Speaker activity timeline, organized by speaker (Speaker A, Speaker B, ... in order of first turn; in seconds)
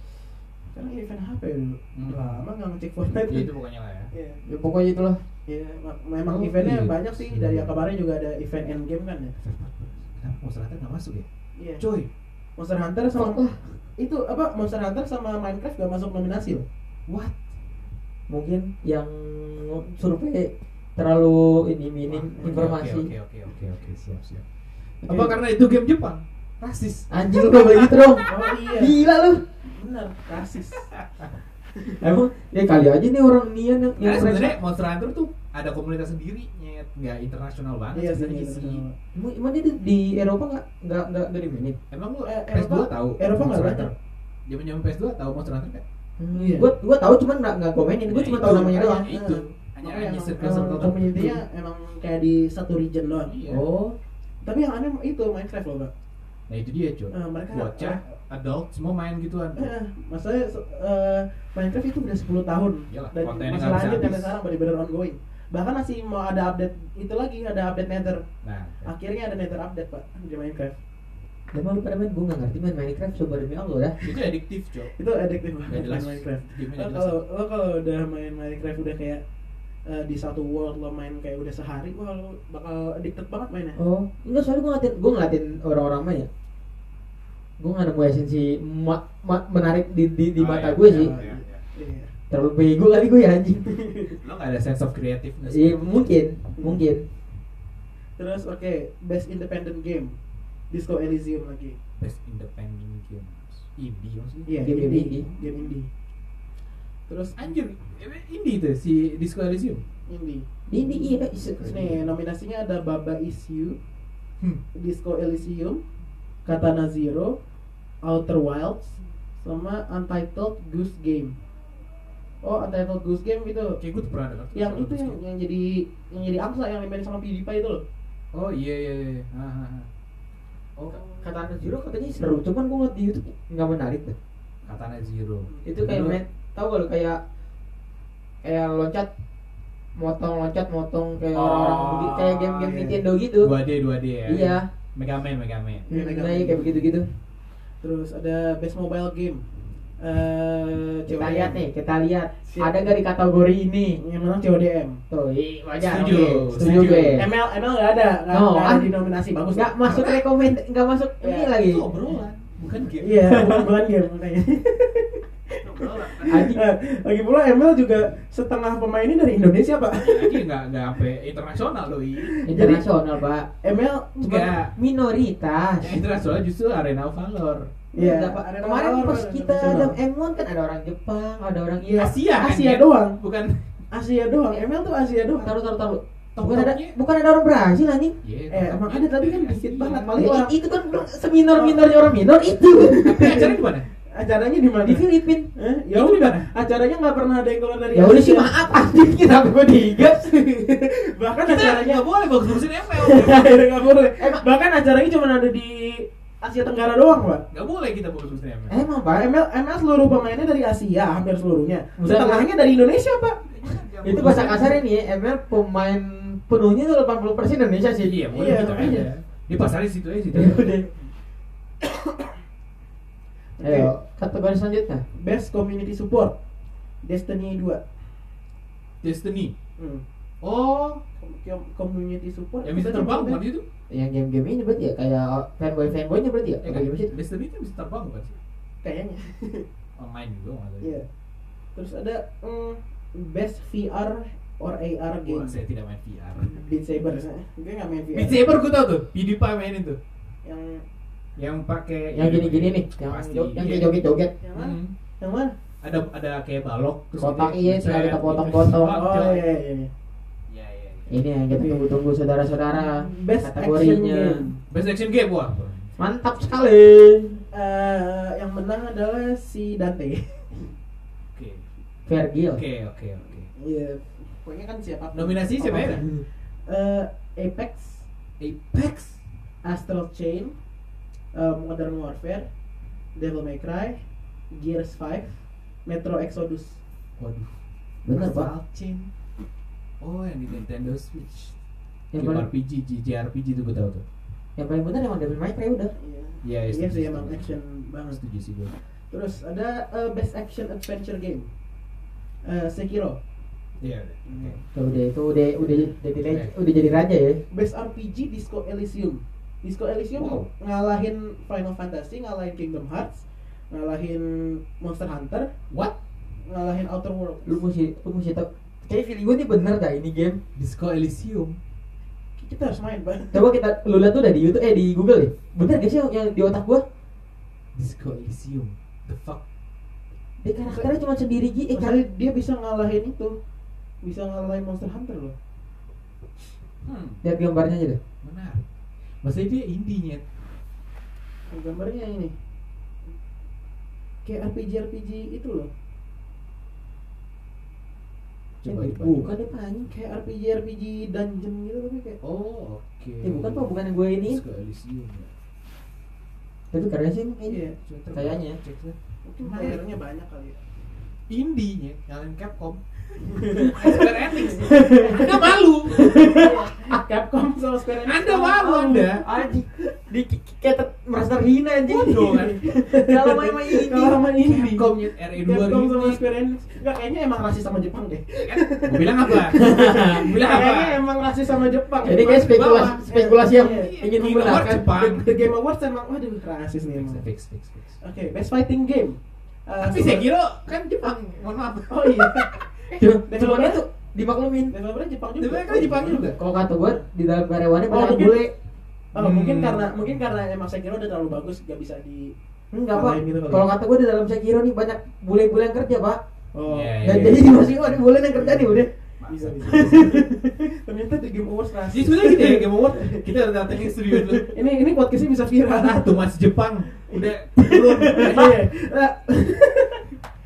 Speaker A: 0.7-3.5, 4.1-4.4, 5.5-9.3, 11.6-11.8, 12.6-13.4, 14.0-16.6, 22.4-22.7, 25.0-25.3, 28.2-29.0, 29.6-30.9, 37.9-38.9, 42.2-43.9, 46.3-46.7, 48.4-53.3, 54.4-55.9, 57.1-58.0, 59.6-68.2, 68.8-70.8, 74.9-79.2, 79.8-83.8, 90.9-92.1, 93.7-94.2, 96.5-96.8, 98.2-100.2, 100.7-101.8, 104.5-105.9, 107.1-107.5, 110.1-113.8, 114.7-115.8, 116.4-117.4, 118.0-121.3, 122.4-123.8, 124.5-127.8, 131.0-131.2, 141.8-143.0, 145.9-146.9, 147.8-149.4, 150.0-151.6, 152.5-152.9, 154.0-155.0, 156.6-159.7, 161.2-161.5, 163.0-170.4, 172.2-172.8, 173.6-174.4, 177.9-180.0, 181.8-183.2, 183.9-185.5, 188.5-190.6, 191.5-191.8, 192.8-198.5, 200.2-207.4, 209.1-213.8, 218.3-219.1, 223.6-223.9, 225.1-226.3, 227.0-227.8, 229.8-230.0, 231.2-233.4, 238.8-239.7, 240.8-241.1, 241.7-245.6, 246.4-248.4, 250.4-250.8, 254.4-255.5, 258.8-259.9, 261.5-261.9, 262.7-264.6, 267.5-270.7, 273.6-276.1, 276.7-278.1, 279.6-280.5, 281.3-282.5, 283.1-286.8, 296.0-298.2, 299.1-301.5, 302.4-303.2, 304.3-304.6, 305.6-305.9, 307.5-315.5, 316.5-317.6, 322.4-323.4, 330.7-330.9, 331.7-333.4, 334.0-335.3, 341.5-342.3, 344.2-345.7, 349.9-352.2, 357.5-357.8, 359.2-360.6, 363.3-369.5, 372.1-387.2, 388.0-390.3, 391.9-392.7, 393.2-393.8, 394.7-397.0, 397.9-398.4, 399.1-402.3, 402.9-403.6, 406.5-407.3, 408.3-408.7, 409.3-416.2, 417.0-420.1
Speaker B: 1.9-2.4, 3.3-4.1, 6.2-7.8, 9.4-11.2, 11.8-12.1, 17.1-17.4, 22.1-24.4, 25.0-28.0, 30.9-31.3, 34.0-38.8, 41.9-43.9, 44.5-45.8, 48.1-51.4, 53.3-53.6, 56.5-59.7, 62.9-64.4, 68.4-68.9, 74.0-74.9, 75.7-77.2, 90.3-91.6, 94.2-96.1, 102.0-104.6, 105.2-105.7, 107.4-109.8, 123.8-125.2, 128.3-129.9, 134.6-136.2, 141.3-142.2, 143.4-145.9, 155.8-157.2, 159.8-160.2, 161.6-163.6, 165.6-166.5, 170.0-172.3, 174.2-174.7, 175.8-177.7, 182.0-183.7, 186.3-186.9, 188.2-190.1, 193.0-193.9, 195.9-196.5, 201.4-203.5, 207.5-208.8, 213.4-214.8, 218.0-220.9, 229.0-229.5, 230.4-231.0, 232.6-233.6, 236.6-238.4, 240.0-241.0, 245.2-246.6, 248.1-250.0, 251.4-253.9, 254.5-254.9, 255.8-259.5, 260.5-261.1, 264.7-265.9, 271.3-271.6, 272.5-273.5, 275.1-276.0, 278.4-279.2, 287.2-287.6, 288.1-289.1, 290.0-291.5, 292.1-294.0, 296.4-297.6, 298.1-298.7, 303.8-304.6, 306.2-306.5, 310.1-310.5, 320.5-321.6, 327.7-329.4, 336.8-337.2, 338.2-338.6, 339.2-340.2, 348.6-349.3, 352.2-353.7, 354.2-355.3, 357.8-359.8, 361.3-366.2, 368.0-369.2, 371.9-372.6, 374.4-376.2, 378.4-381.0, 382.0-385.4, 386.9-388.0, 389.8-393.0, 395.4-396.4, 399.1-400.1, 406.6-408.0, 409.2-410.0, 411.9-414.5, 415.7-418.6
Speaker C: 4.4-5.2, 13.1-13.6, 18.3-23.1, 27.1-29.4, 32.0-34.5, 39.1-41.8, 46.2-49.1, 53.5-54.0, 71.5-74.0, 83.8-86.3, 87.6-91.1, 92.3-93.7, 95.5-97.0, 104.6-105.3, 110.7-111.9, 131.2-134.2, 135.6-137.2, 138.4-139.1, 140.0-143.5, 144.2-144.7, 145.9-147.1, 151.1-154.0, 155.1-157.3, 158.3-158.9, 159.5-161.8, 166.3-166.6, 172.4-173.5, 174.2-176.0, 177.9-182.1, 185.4-188.2, 190.1-193.5, 194.8-195.5, 197.9-200.4, 208.7-209.3, 212.0-212.5, 214.0-218.9, 220.3-220.9, 223.6-225.0, 233.9-237.1, 252.1-254.3, 257.2-259.0, 261.1-264.4, 266.0-267.4, 272.1-272.6, 275.7-276.2, 288.0-288.5, 292.1-292.5, 294.6-295.9, 304.7-307.4, 317.4-320.4, 323.3-326.8, 330.4-331.9, 337.2-338.0, 348.6-349.9, 353.2-354.4, 356.7-358.6, 366.1-366.9, 368.7-374.2, 379.5-380.2, 382.0-384.8, 393.0-394.7, 396.3-398.5, 402.7-406.2, 407.0-408.9, 409.6-410.6